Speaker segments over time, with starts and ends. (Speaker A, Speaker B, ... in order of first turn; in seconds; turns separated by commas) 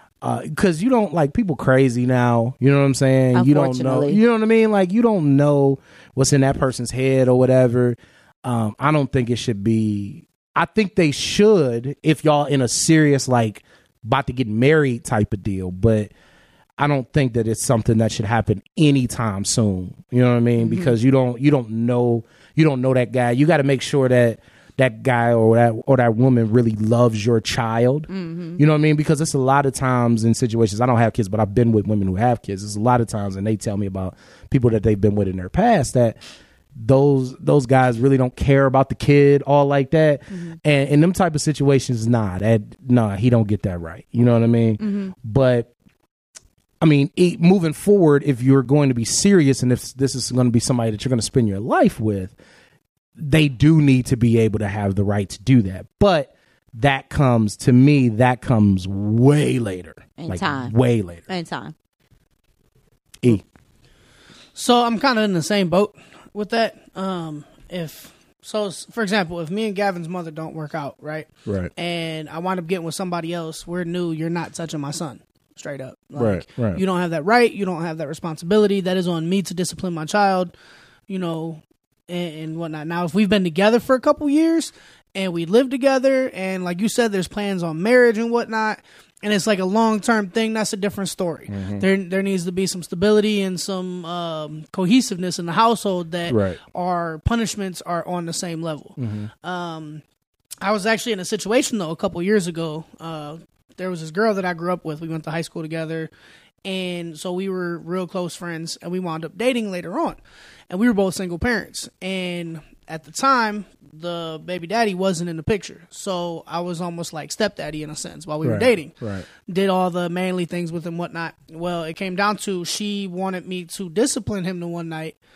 Speaker A: 0.2-16.1, Speaker B: 3.3-4.2, Speaker A: 16.8-36.2, Speaker B: 20.6-20.9, Speaker B: 28.1-28.6, Speaker A: 36.8-45.7, Speaker B: 44.8-45.1, Speaker A: 46.8-52.3, Speaker A: 53.2-61.2, Speaker B: 60.2-60.7, Speaker B: 61.3-61.7, Speaker C: 64.5-80.5, Speaker A: 71.5-71.7, Speaker A: 76.1-76.8, Speaker C: 81.1-100.0, Speaker A: 91.5-91.9, Speaker A: 96.3-96.6, Speaker A: 99.0-99.3, Speaker C: 100.6-106.1, Speaker C: 106.6-125.2, Speaker A: 118.4-119.3